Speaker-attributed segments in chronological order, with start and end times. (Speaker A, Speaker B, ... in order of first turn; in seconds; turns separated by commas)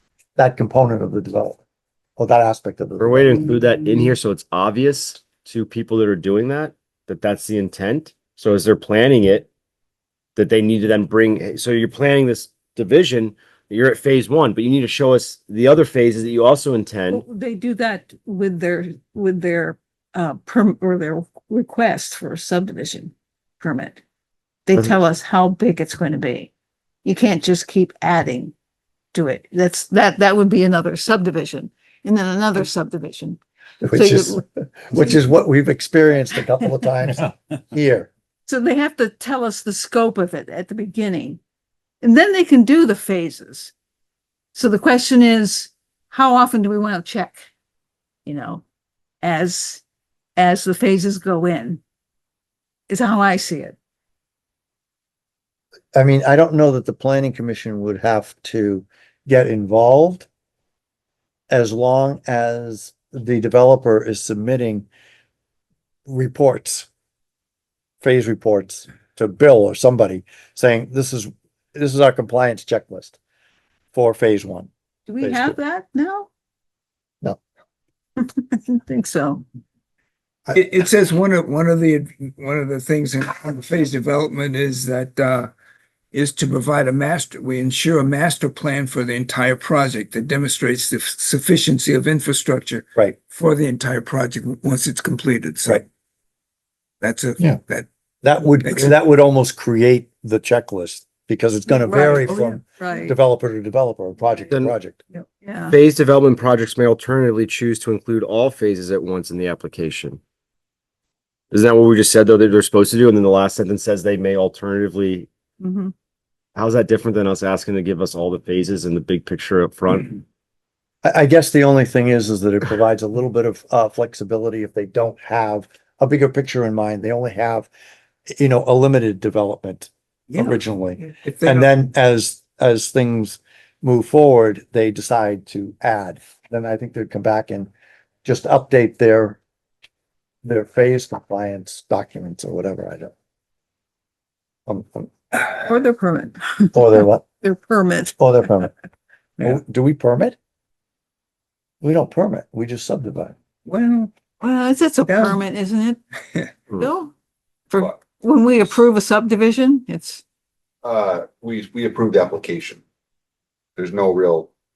Speaker A: 0.3-1.6, Speaker A: 2.2-3.5, Speaker B: 3.0-9.5, Speaker B: 10.3-17.2, Speaker C: 17.1-24.0, Speaker C: 24.6-26.5, Speaker C: 27.0-28.5, Speaker C: 29.1-33.4, Speaker A: 33.8-38.1, Speaker C: 33.9-34.4, Speaker C: 38.5-41.4, Speaker C: 42.0-43.7, Speaker C: 44.5-47.4, Speaker C: 48.2-48.6, Speaker C: 49.2-49.8, Speaker C: 50.4-51.8, Speaker C: 52.9-53.8, Speaker A: 55.9-60.3, Speaker A: 61.5-64.9, Speaker A: 66.1-66.9, Speaker A: 68.0-73.2, Speaker A: 73.9-74.7, Speaker C: 75.1-76.3, Speaker A: 75.2-75.6, Speaker C: 78.2-79.4, Speaker D: 80.5-85.5, Speaker D: 86.1-95.8, Speaker D: 97.0-97.9, Speaker A: 98.2-105.0, Speaker D: 98.6-98.9, Speaker C: 101.7-103.2, Speaker C: 105.1-105.8, Speaker B: 105.7-110.2, Speaker B: 111.5-115.3, Speaker C: 115.6-115.9, Speaker B: 116.5-120.2, Speaker A: 121.0-127.7, Speaker A: 128.3-137.7, Speaker D: 130.3-131.7, Speaker A: 138.2-139.4, Speaker A: 140.4-143.1, Speaker A: 144.7-145.1, Speaker C: 145.7-148.2, Speaker A: 146.7-147.2, Speaker A: 148.2-148.7, Speaker A: 149.4-150.4, Speaker A: 151.8-153.3, Speaker D: 153.7-154.1, Speaker C: 154.4-156.0, Speaker D: 155.1-155.4, Speaker C: 156.7-157.1, Speaker C: 157.7-160.2, Speaker E: 160.8-162.8, Speaker E: 163.8-164.5